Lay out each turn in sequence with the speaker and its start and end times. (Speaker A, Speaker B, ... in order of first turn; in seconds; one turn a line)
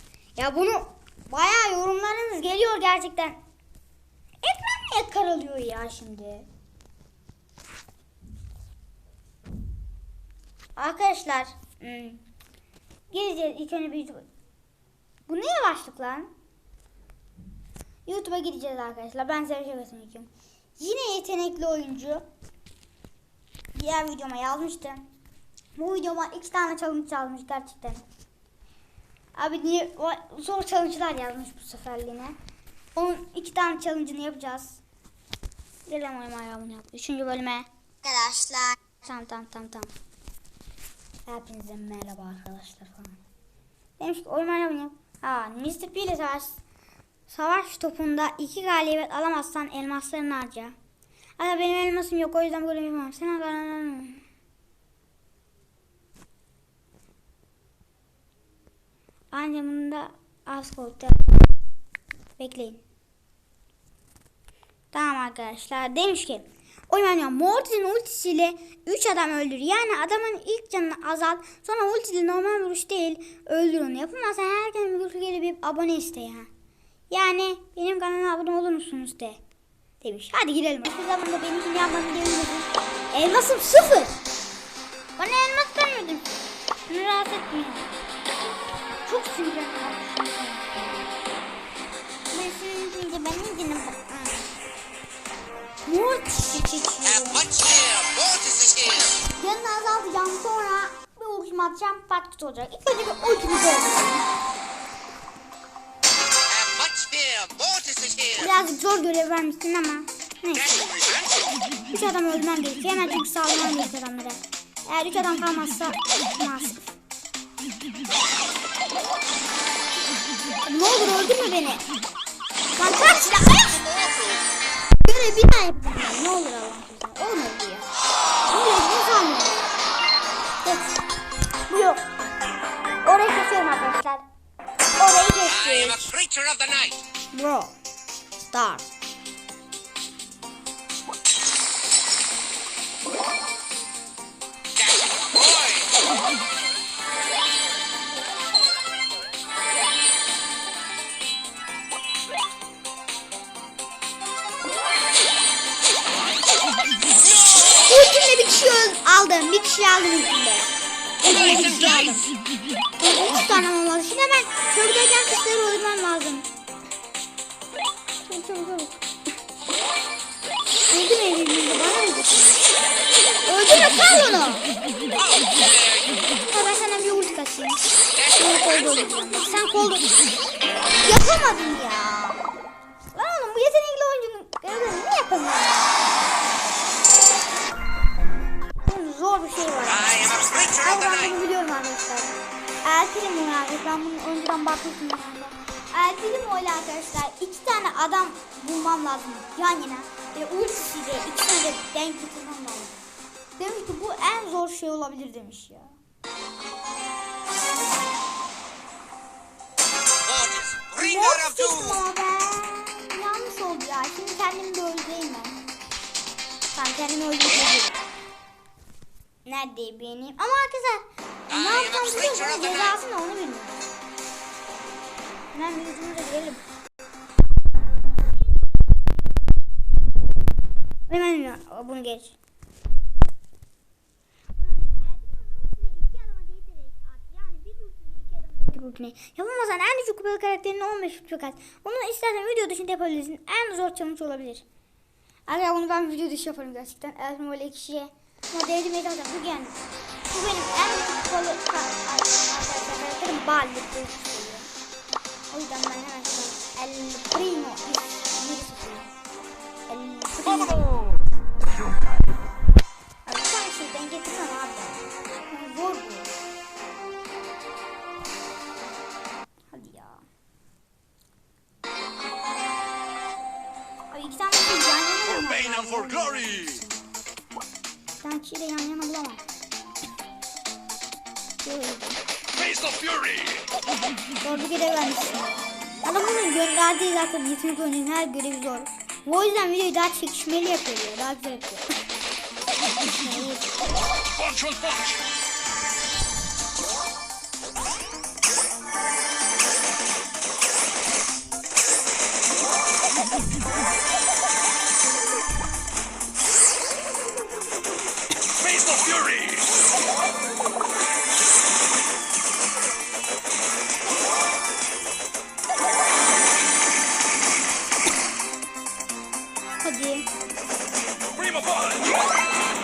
Speaker A: 0.3-3.4
Speaker A: 4.4-6.5
Speaker A: 10.8-12.2
Speaker A: 13.1-14.3
Speaker A: 15.3-16.3
Speaker A: 18.1-22.2
Speaker A: 23.7-25.1
Speaker A: 25.8-28.0
Speaker A: 29.3-32.3
Speaker A: 32.9-34.8
Speaker A: 35.9-39.9
Speaker A: 41.2-43.2
Speaker A: 44.0-46.6
Speaker A: 47.3-50.8
Speaker A: 51.4-54.2
Speaker A: 59.3-61.3
Speaker A: 62.4-62.8
Speaker A: 64.9-76.5
Speaker A: 77.1-79.4
Speaker A: 80.0-84.2
Speaker A: 85.2-86.3
Speaker A: 86.9-87.9
Speaker A: 89.0-91.1
Speaker A: 92.3-94.5
Speaker A: 95.8-97.5
Speaker B: 97.5-99.0
Speaker A: 99.0-104.3
Speaker B: 106.5-108.3
Speaker A: 108.3-111.0
Speaker B: 110.8-111.3
Speaker A: 111.9-116.9
Speaker A: 120.6-121.8
Speaker A: 122.8-123.8
Speaker B: 124.0-124.4
Speaker A: 125.0-127.9
Speaker A: 128.4-129.6
Speaker A: 130.6-131.0
Speaker A: 131.7-132.0
Speaker A: 133.0-134.2
Speaker A: 135.0-136.1
Speaker B: 136.0-137.0
Speaker A: 137.3-137.7
Speaker A: 138.5-138.9
Speaker B: 145.4-145.8
Speaker A: 157.8-162.3
Speaker A: 163.0-166.5
Speaker A: 168.2-169.0
Speaker A: 170.9-172.7
Speaker A: 173.4-174.7
Speaker B: 175.5-176.1
Speaker A: 176.4-180.2
Speaker A: 180.9-182.4
Speaker A: 183.1-185.9
Speaker A: 188.8-203.0
Speaker B: 190.1-190.7
Speaker A: 203.6-205.9
Speaker B: 210.2-211.0
Speaker A: 210.9-215.6
Speaker A: 216.7-218.0
Speaker A: 219.4-223.8
Speaker A: 225.5-226.6
Speaker A: 228.3-229.4
Speaker A: 231.1-232.3
Speaker A: 234.6-244.6
Speaker A: 245.5-249.8
Speaker A: 250.3-254.7
Speaker A: 255.5-259.1
Speaker A: 259.9-261.0
Speaker A: 263.2-266.3
Speaker A: 269.7-270.2
Speaker A: 274.1-276.9
Speaker A: 278.2-279.4
Speaker A: 281.6-282.2
Speaker C: 282.6-283.6
Speaker A: 284.4-292.0
Speaker A: 293.1-293.9
Speaker C: 294.4-295.2
Speaker C: 308.6-309.6
Speaker A: 319.8-320.3
Speaker C: 321.4-322.0